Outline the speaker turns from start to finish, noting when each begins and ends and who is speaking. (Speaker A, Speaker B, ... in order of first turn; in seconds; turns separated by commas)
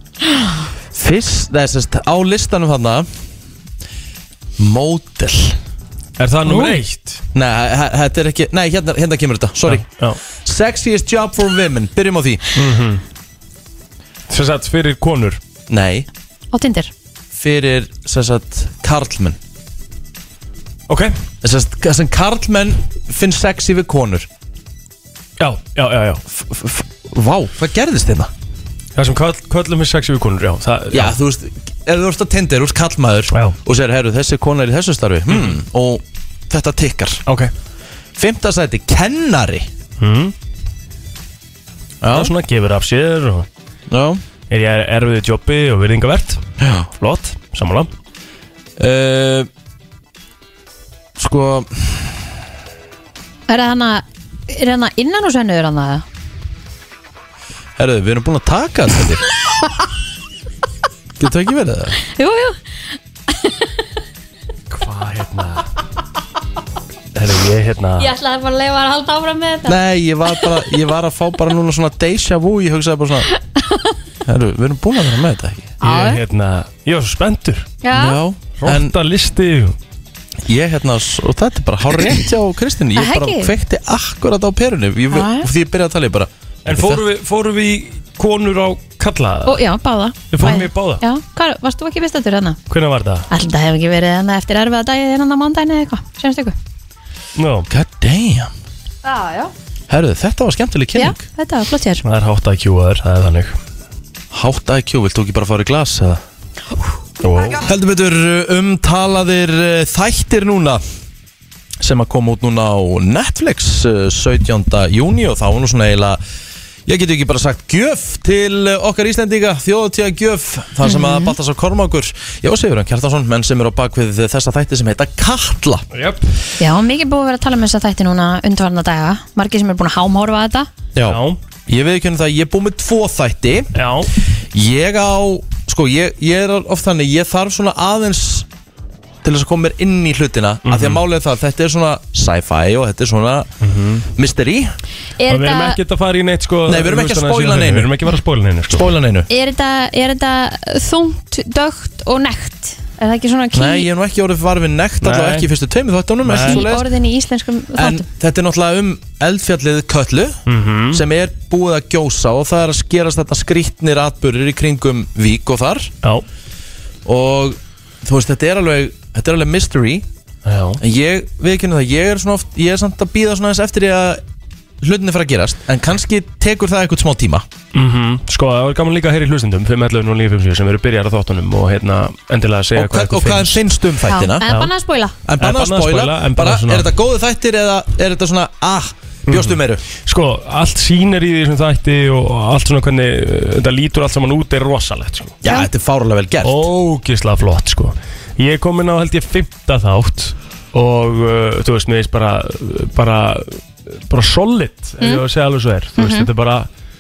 Speaker A: 0.9-3.1, Speaker A: 4.6-5.6, Speaker B: 6.2-7.2, Speaker C: 6.5-6.8, Speaker A: 7.3-9.9, Speaker B: 9.7-10.2, Speaker A: 10.4-12.5, Speaker B: 12.6-13.0, Speaker B: 14.3-15.4, Speaker A: 15.7-16.1, Speaker C: 16.5-16.9, Speaker A: 17.3-19.4, Speaker A: 21.4-24.3, Speaker B: 25.4-26.2, Speaker A: 26.3-28.3, Speaker B: 29.0-31.2, Speaker A: 30.9-37.2, Speaker B: 35.3-35.6, Speaker B: 37.3-37.5, Speaker A: 38.2-39.7, Speaker B: 40.0-40.3, Speaker A: 42.0-42.3, Speaker B: 42.1-43.5, Speaker A: 43.9-44.2, Speaker B: 44.5-46.4, Speaker A: 46.6-46.9, Speaker B: 47.0-47.9, Speaker A: 48.8-49.5, Speaker A: 51.2-52.3, Speaker C: 53.5-56.0, Speaker A: 57.8-59.2, Speaker A: 61.2-62.0, Speaker C: 62.1-63.8, Speaker B: 64.7-65.7, Speaker B: 67.2-68.1, Speaker C: 68.0-69.8, Speaker A: 69.7-73.3, Speaker C: 73.3-74.0, Speaker A: 74.3-75.7, Speaker C: 75.8-76.2, Speaker B: 75.8-77.8, Speaker C: 77.8-78.2, Speaker A: 77.9-79.0, Speaker B: 78.6-79.8, Speaker A: 80.5-87.0, Speaker C: 83.0-83.5, Speaker C: 85.1-85.5, Speaker B: 86.7-89.6, Speaker C: 89.5-92.6, Speaker B: 90.3-91.0, Speaker B: 92.7-93.3, Speaker C: 93.3-96.5, Speaker B: 97.4-97.7, Speaker A: 97.7-98.5, Speaker C: 99.0-99.5, Speaker A: 99.9-101.2, Speaker C: 101.0-102.0, Speaker B: 102.0-103.5, Speaker A: 104.3-106.2, Speaker B: 107.2-107.6, Speaker A: 107.6-110.8, Speaker A: 111.8-116.2, Speaker A: 116.9-125.9, Speaker C: 120.8-121.3, Speaker B: 125.9-126.2, Speaker C: 126.6-130.7, Speaker A: 130.9-133.8, Speaker B: 131.1-131.4, Speaker B: 133.8-134.1, Speaker A: 134.5-138.5, Speaker A: 139.2-143.5, Speaker B: 140.7-141.0, Speaker B: 143.6-144.1, Speaker A: 144.2-144.7, Speaker C: 145.2-145.8, Speaker B: 145.3-148.8, Speaker A: 146.7-147.9, Speaker A: 148.7-149.3, Speaker C: 149.3-153.9, Speaker A: 153.5-156.9, Speaker B: 155.0-155.5, Speaker B: 156.2-156.7, Speaker C: 156.4-158.1, Speaker A: 157.8-165.9, Speaker B: 160.5-161.0, Speaker A: 167.1-170.1, Speaker B: 170.5-170.8, Speaker A: 170.8-174.2, Speaker A: 174.8-177.5, Speaker B: 177.7-183.7, Speaker A: 182.8-184.5, Speaker C: 184.1-185.2, Speaker B: 184.5-184.7, Speaker A: 185.3-189.8, Speaker B: 185.4-186.9, Speaker B: 189.3-195.4, Speaker A: 195.4-196.7, Speaker B: 196.4-206.7, Speaker C: 206.0-206.3